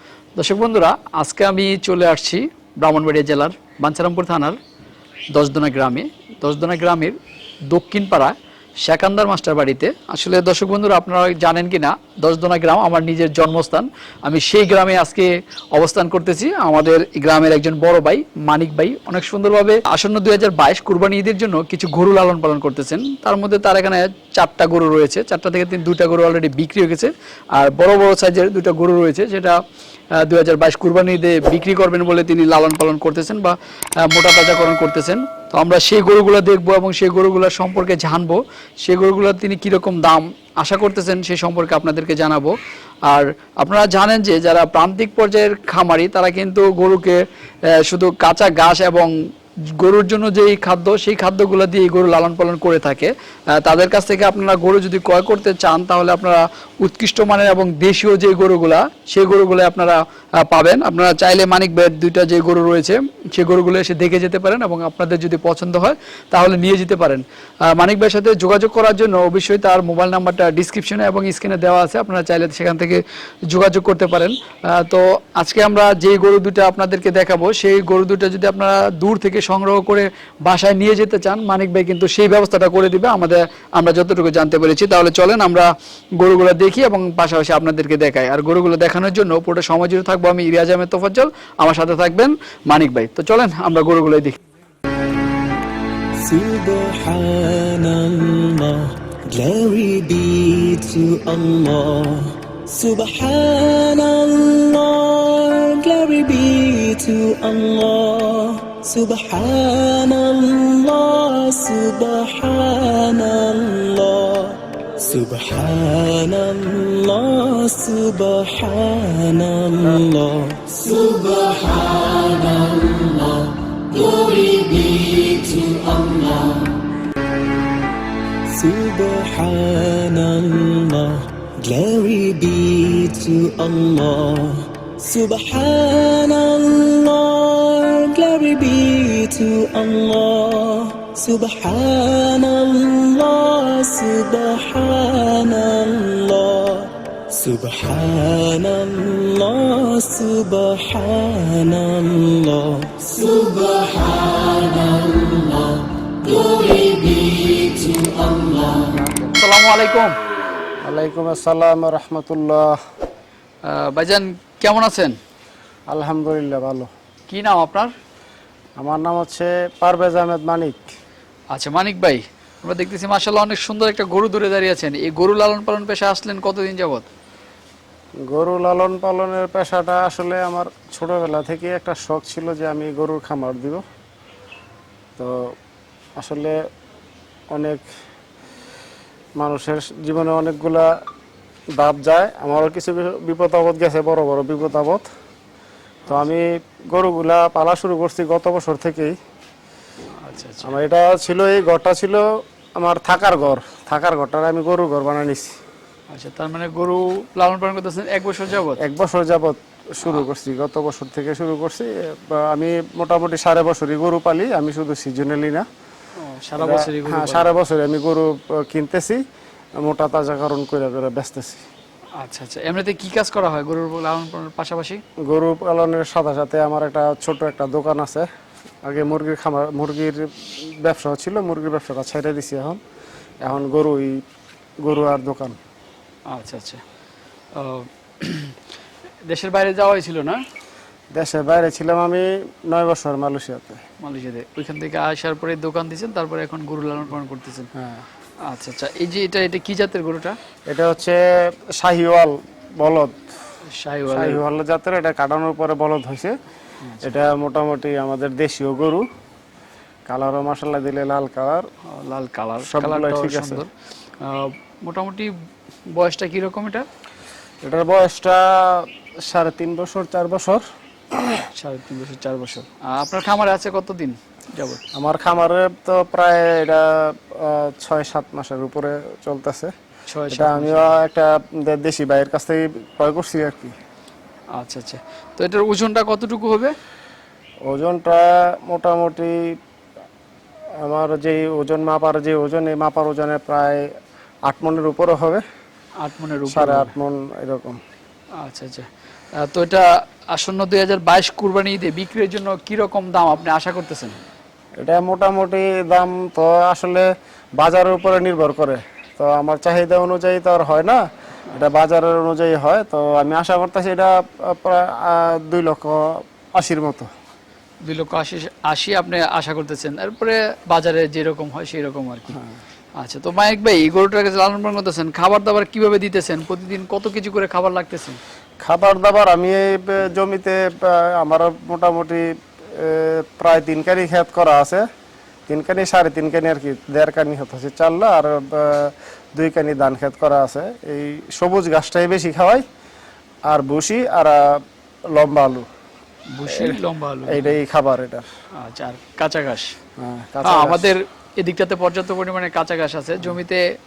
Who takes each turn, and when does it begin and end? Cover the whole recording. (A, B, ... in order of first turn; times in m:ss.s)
0:00.4-0:04.6 A
0:05.3-0:07.2 A
0:07.7-0:29.6 A
0:30.1-0:42.5 A
0:43.0-0:49.1 A
0:49.7-1:34.4 A
1:36.2-2:06.7 B
2:08.5-2:38.9 B
2:38.9-2:39.4 C
2:39.4-2:40.1 A
2:40.8-2:42.7 C
2:43.7-2:45.2 A
2:45.9-2:46.9 C
2:47.3-2:47.9 A
2:48.8-2:50.9 C
2:51.5-2:57.1 A
2:58.3-3:03.8 C
3:05.2-3:05.5 C
3:06.2-3:06.6 C
3:07.5-3:07.8 C
3:09.4-3:10.9 C
3:11.7-3:15.0 C
3:16.1-3:19.1 C
3:20.2-3:20.8 A
3:20.6-3:22.2 C
3:22.8-3:25.6 C
3:26.1-3:28.8 A
3:28.8-3:35.6 C
3:36.2-3:37.5 A
3:36.6-3:39.2 C
3:39.8-3:41.6 C
3:42.2-3:45.0 A
3:45.2-3:48.2 C
3:48.8-3:52.8 C
3:53.4-3:54.2 C
3:54.8-3:55.6 C
3:56.3-3:56.8 A
3:57.5-3:58.6 A
3:59.2-4:00.4 A
4:01.1-4:03.8 C
4:04.0-4:07.7 A
4:07.8-4:08.0 C
4:08.4-4:10.4 A
4:10.7-4:13.2 C
4:13.7-4:14.4 A
4:14.1-4:16.3 C
4:16.8-4:17.1 A
4:17.0-4:19.0 C
4:20.1-4:21.7 C
4:21.9-4:23.7 A
4:22.6-4:23.6 C
4:24.2-4:25.3 A
4:25.9-4:26.8 A
4:27.6-4:31.4 C
4:31.5-4:34.8 A
4:34.9-4:39.7 C
4:40.1-4:41.0 A
4:40.3-4:43.7 C
4:44.5-4:46.7 A
4:47.7-4:49.5 C
4:50.8-4:53.8 C
4:54.4-4:55.4 C
4:56.0-4:56.9 A
4:56.5-4:57.8 C
4:58.4-5:04.2 A
5:04.8-5:17.1 C
5:17.8-5:22.4 A
5:22.3-5:22.6 C
5:23.0-5:28.2 A
5:28.6-5:34.8 C
5:35.5-5:42.6 C
5:43.4-5:45.6 C
5:46.3-5:47.6 A
5:46.5-5:48.2 C
5:48.6-5:49.7 A
5:50.0-5:50.9 C
5:50.4-5:53.6 A